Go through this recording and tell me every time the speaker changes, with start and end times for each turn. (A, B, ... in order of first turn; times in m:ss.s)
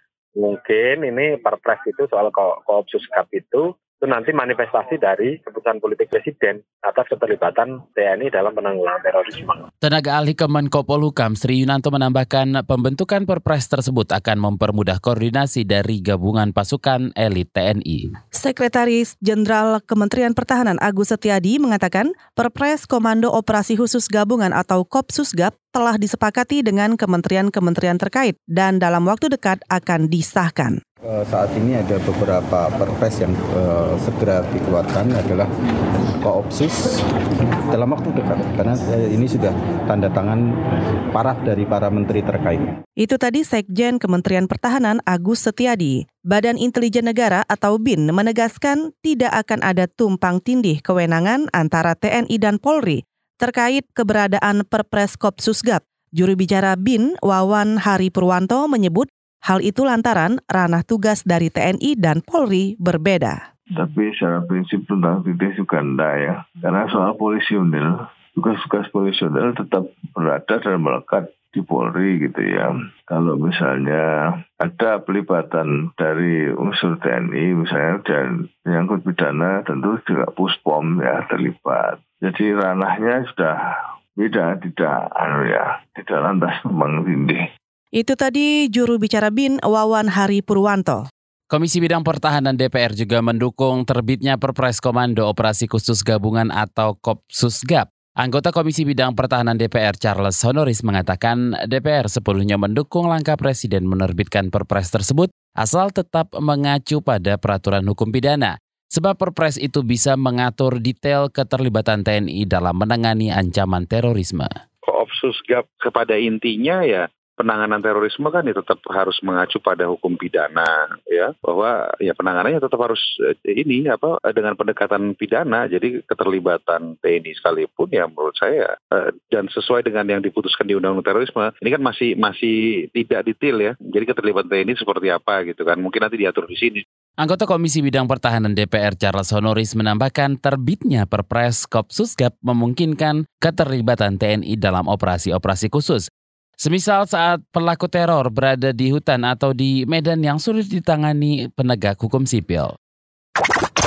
0:00.4-0:09.6 A
0:09.8-0:18.1 B
0:18.3-0:30.8 C
0:31.1-0:35.5 D
0:36.2-0:37.0 D
0:37.7-0:40.4 D
0:41.1-0:42.8 D
0:43.0-1:03.4 C
1:03.7-1:14.1 E
1:14.6-1:23.6 E
1:24.2-1:27.4 E
1:28.0-1:31.0 C
1:31.5-1:54.5 B
1:54.8-2:16.8 F
2:17.2-2:26.0 B
2:26.6-2:32.7 B